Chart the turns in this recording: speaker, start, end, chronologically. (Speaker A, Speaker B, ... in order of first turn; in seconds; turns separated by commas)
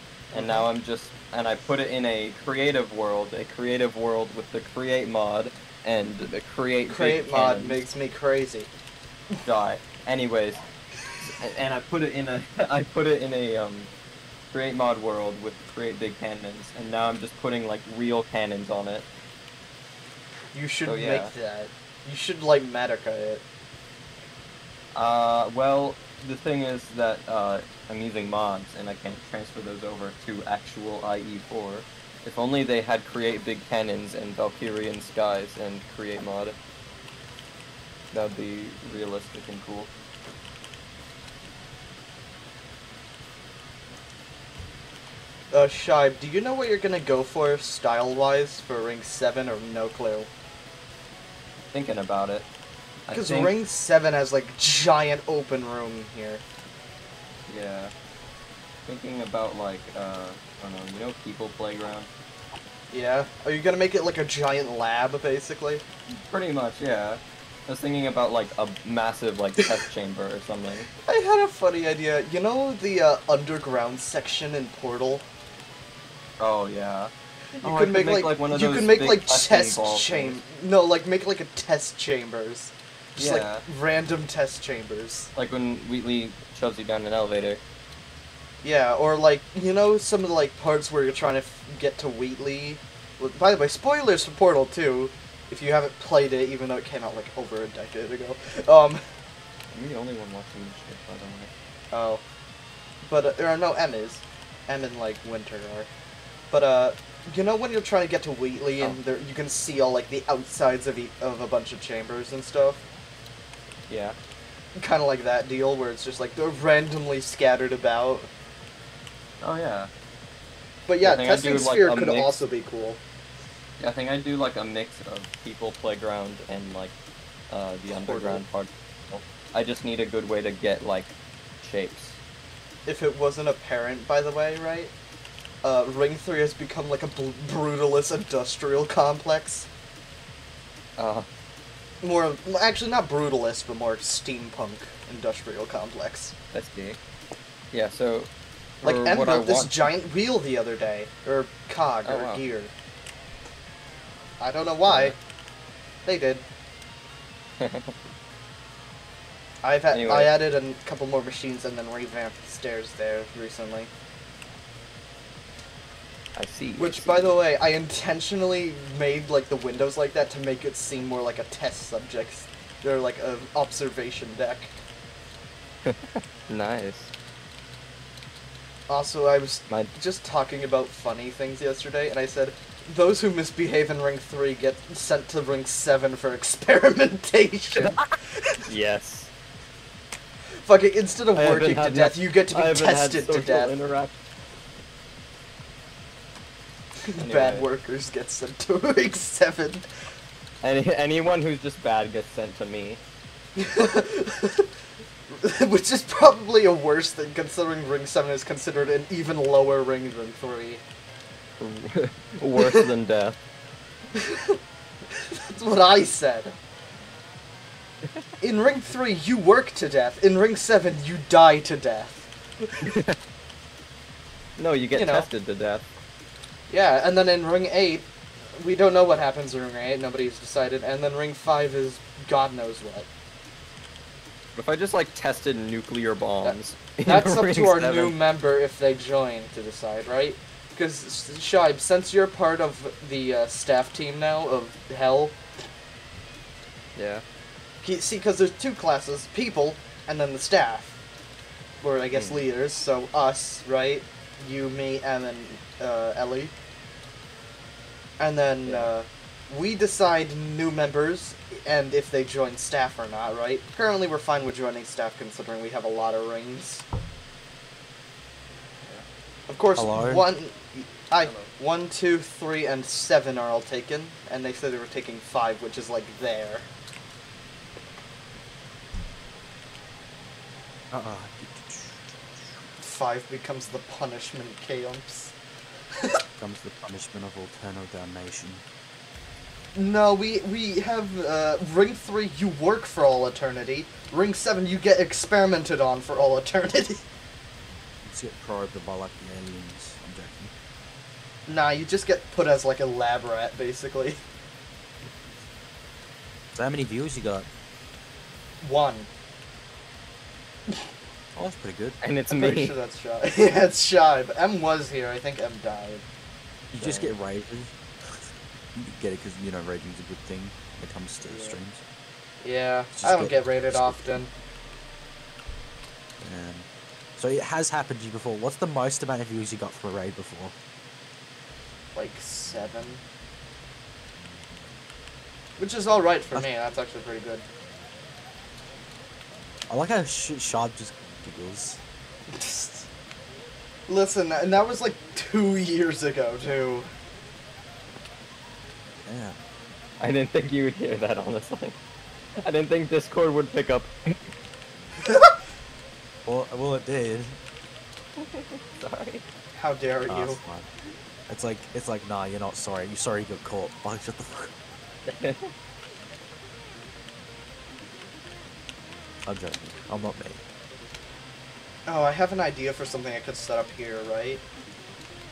Speaker A: 0.3-7.8, Speaker B: 0.3-0.7, Speaker B: 6.9-8.7, Speaker A: 9.4-10.6, Speaker A: 11.2-13.9, Speaker A: 14.5-19.1, Speaker B: 20.5-23.4, Speaker A: 20.9-21.3, Speaker A: 24.9-36.5, Speaker A: 38.1-39.9, Speaker B: 45.5-50.3, Speaker A: 51.7-52.5, Speaker A: 53.0-53.5, Speaker B: 53.1-56.4, Speaker A: 57.5-57.9, Speaker A: 58.9-62.1, Speaker B: 62.9-65.8, Speaker A: 66.1-70.9, Speaker B: 71.0-75.2, Speaker A: 76.4-77.1, Speaker B: 77.6-85.3, Speaker A: 77.6-80.4, Speaker A: 83.2-83.6, Speaker A: 85.3-87.6, Speaker B: 88.6-99.0, Speaker A: 99.7-101.5, Speaker B: 101.9-102.2, Speaker B: 103.0-105.9, Speaker B: 106.5-112.8, Speaker A: 113.9-114.1, Speaker B: 114.8-118.3, Speaker A: 119.4-119.9, Speaker B: 120.9-123.0, Speaker A: 121.0-122.3, Speaker A: 123.8-126.9, Speaker A: 127.5-132.2, Speaker B: 127.9-128.4, Speaker B: 132.8-134.9, Speaker B: 135.6-139.7, Speaker A: 141.0-141.3, Speaker B: 142.0-146.3, Speaker A: 146.5-147.0, Speaker A: 147.7-148.3, Speaker A: 148.8-149.8, Speaker B: 148.8-152.7, Speaker A: 152.1-152.4, Speaker B: 154.4-155.1, Speaker A: 154.8-155.2, Speaker B: 156.0-156.4, Speaker A: 157.6-157.9, Speaker B: 159.6-163.9, Speaker A: 159.9-160.3, Speaker A: 166.3-167.3, Speaker B: 166.8-174.7, Speaker A: 175.8-177.1, Speaker B: 178.9-188.3, Speaker A: 187.7-188.1, Speaker A: 188.7-189.3, Speaker B: 190.6-193.7, Speaker A: 191.3-194.1, Speaker B: 197.1-199.9, Speaker A: 197.2-197.7, Speaker A: 200.6-203.0, Speaker B: 203.6-204.7, Speaker B: 205.3-210.8, Speaker A: 211.6-213.4, Speaker B: 214.1-214.6, Speaker B: 215.1-216.5, Speaker B: 218.4-222.9, Speaker A: 222.8-223.2, Speaker A: 224.6-225.8, Speaker B: 224.9-225.3, Speaker B: 226.7-233.1, Speaker A: 234.6-238.2, Speaker B: 236.4-245.3, Speaker A: 246.9-247.2, Speaker B: 247.8-251.0, Speaker B: 251.8-256.5, Speaker A: 252.1-252.4, Speaker B: 258.2-266.9, Speaker A: 258.6-258.9, Speaker B: 269.5-276.7, Speaker C: 269.8-270.2, Speaker A: 271.2-271.5, Speaker C: 280.9-282.2, Speaker B: 282.8-285.3, Speaker C: 286.4-288.6, Speaker B: 289.7-297.0, Speaker C: 298.0-300.5, Speaker B: 301.5-304.2, Speaker C: 306.5-307.5, Speaker B: 308.6-309.1, Speaker C: 311.3-312.0, Speaker A: 312.0-312.7, Speaker B: 312.3-316.0, Speaker C: 316.7-321.8, Speaker A: 316.8-317.1, Speaker B: 321.2-321.6, Speaker B: 322.4-324.3, Speaker C: 322.9-324.2, Speaker C: 326.2-330.5, Speaker B: 331.9-333.0, Speaker B: 335.6-337.4, Speaker C: 339.7-341.8, Speaker B: 342.3-342.9, Speaker B: 343.9-346.9, Speaker C: 349.0-349.4, Speaker A: 350.0-351.8, Speaker A: 352.4-353.9, Speaker B: 355.0-355.3, Speaker C: 356.2-357.4, Speaker A: 358.2-359.2, Speaker B: 359.5-360.4, Speaker C: 360.1-360.7, Speaker C: 361.3-364.5, Speaker A: 365.1-365.5, Speaker C: 369.2-370.4, Speaker B: 371.9-374.4